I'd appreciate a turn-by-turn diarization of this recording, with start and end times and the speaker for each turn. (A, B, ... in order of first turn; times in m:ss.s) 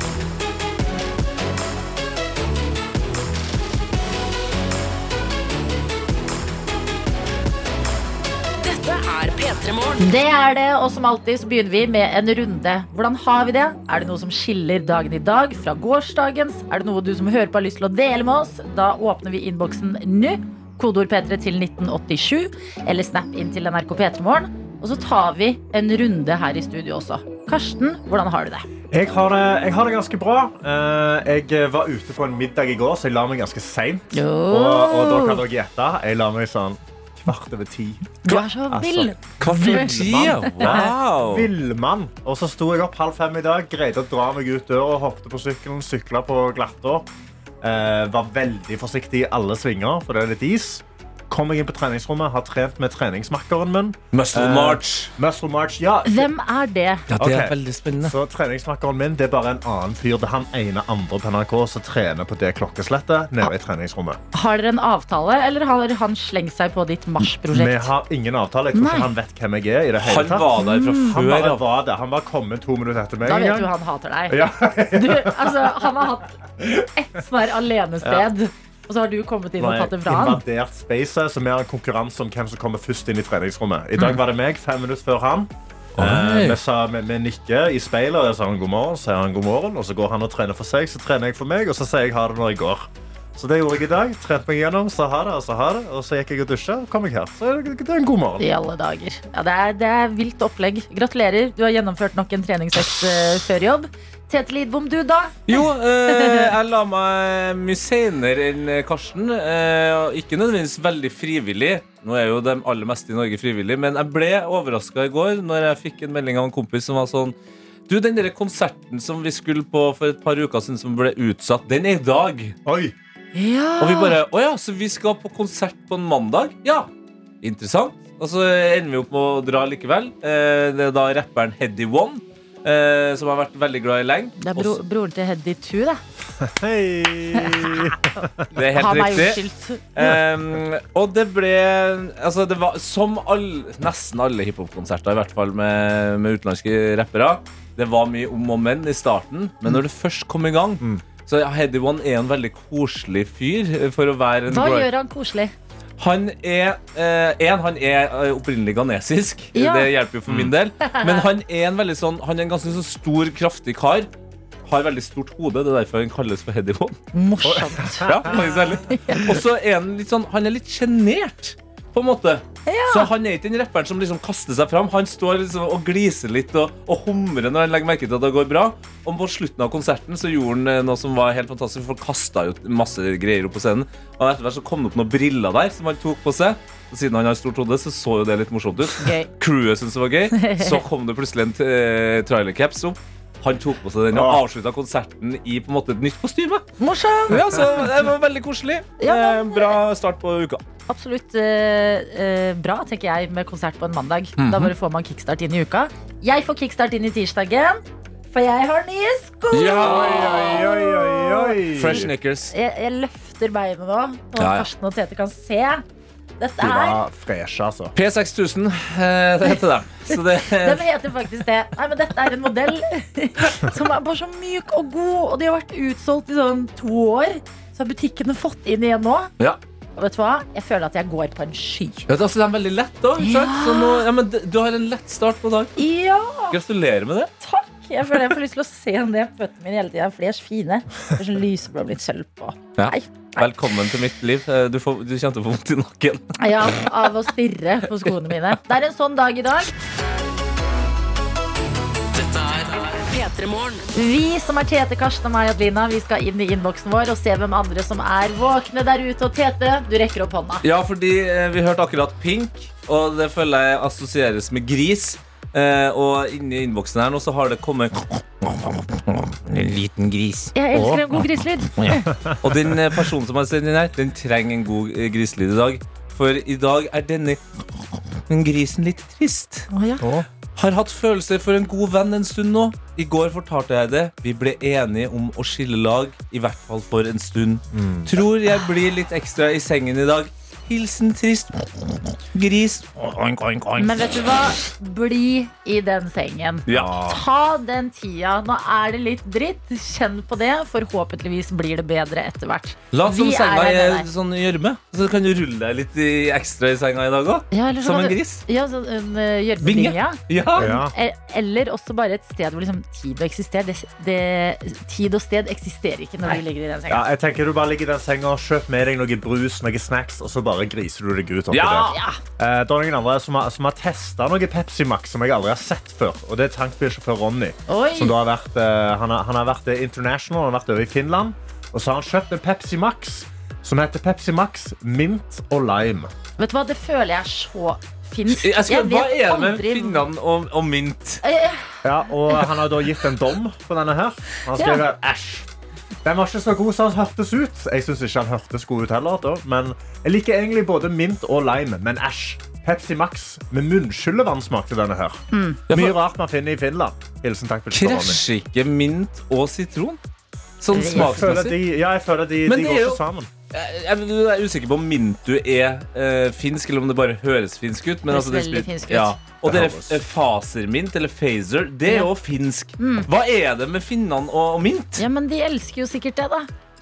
0:08.6-0:10.1 A
0:10.0-0:28.7 B
0:28.9-0:47.1 C
0:34.1-0:35.4 B
0:38.2-0:40.9 B
0:39.4-0:41.5 D
0:47.6-0:56.3 C
0:54.1-0:55.1 D
0:56.0-0:57.0 B
0:57.1-0:58.1 D
0:57.2-1:04.2 C
1:04.3-1:07.9 B
1:07.5-1:13.7 C
1:08.7-1:09.1 B
1:10.0-1:11.6 D
1:10.6-1:11.2 B
1:13.2-1:20.4 B
1:14.3-1:15.7 C
1:19.6-1:38.4 C
1:26.0-1:26.6 D
1:38.4-1:46.5 B
1:45.5-1:57.3 D
1:57.9-2:02.6 D
2:02.6-2:02.9 C
2:03.3-2:04.2 B
2:03.8-2:06.9 D
2:07.4-2:14.8 D
2:14.4-2:16.0 B
2:16.3-2:18.5 C
2:17.3-2:18.0 B
2:18.5-2:19.4 D
2:18.7-2:19.8 B
2:19.9-2:34.9 D
2:34.5-2:35.5 B
2:36.0-2:44.1 D
2:39.5-2:39.9 B
2:40.3-2:40.5 C
2:40.9-2:41.2 B
2:44.6-2:47.0 D
2:47.1-2:48.4 B
2:47.4-2:48.4 C
2:48.0-3:16.6 D
2:48.9-2:49.3 B
2:52.7-2:53.1 B
3:08.9-3:09.3 B
3:10.3-3:10.8 B
3:14.1-3:14.4 C
3:16.8-3:17.5 B
3:17.3-3:20.6 D
3:19.0-3:19.8 B
3:20.9-3:35.8 B
3:24.4-3:24.7 D
3:29.5-3:30.6 D
3:29.8-3:32.1 C
3:31.7-3:32.5 D
3:34.4-3:34.7 D
3:36.4-3:37.0 B
3:36.6-3:38.0 C
3:38.0-3:40.8 D
3:40.1-3:49.3 B
3:50.0-3:52.0 B
3:52.1-3:55.8 D
3:53.2-3:54.0 B
3:55.8-3:56.6 B
3:56.5-3:57.3 D
3:57.4-4:03.5 B
4:02.8-4:06.8 D
4:06.4-4:09.7 B
4:12.1-4:13.8 A
4:13.9-4:20.6 B
4:20.6-4:30.5 D
4:30.5-4:32.1 B
4:30.7-4:31.0 C
4:31.8-4:37.4 D
4:32.0-4:32.8 C
4:38.3-4:39.7 D
4:39.7-4:40.0 B
4:40.0-4:40.3 C
4:40.6-4:54.2 D
4:47.7-4:48.1 C
4:53.8-5:04.1 B
4:56.7-4:57.0 D
4:56.7-4:57.2 C
5:02.9-5:08.4 D
5:07.5-5:17.1 B
5:09.6-5:10.7 D
5:10.6-5:10.9 C
5:16.9-5:36.1 C
5:21.5-5:22.0 D
5:21.9-5:22.2 B
5:27.7-5:28.2 B
5:36.4-5:40.0 B
5:38.3-5:41.2 D
5:41.2-5:41.8 B
5:41.8-5:45.5 C
5:44.6-5:44.8 B
5:46.0-5:58.2 C
5:55.3-5:55.6 B
5:55.7-5:56.0 D
5:57.7-6:00.0 D
6:00.6-6:01.6 D
6:00.7-6:01.3 B
6:00.9-6:03.3 C
6:02.4-6:03.0 D
6:03.5-6:15.0 D
6:08.1-6:09.1 B
6:09.4-6:10.0 C
6:12.8-6:13.1 B
6:15.0-6:16.5 B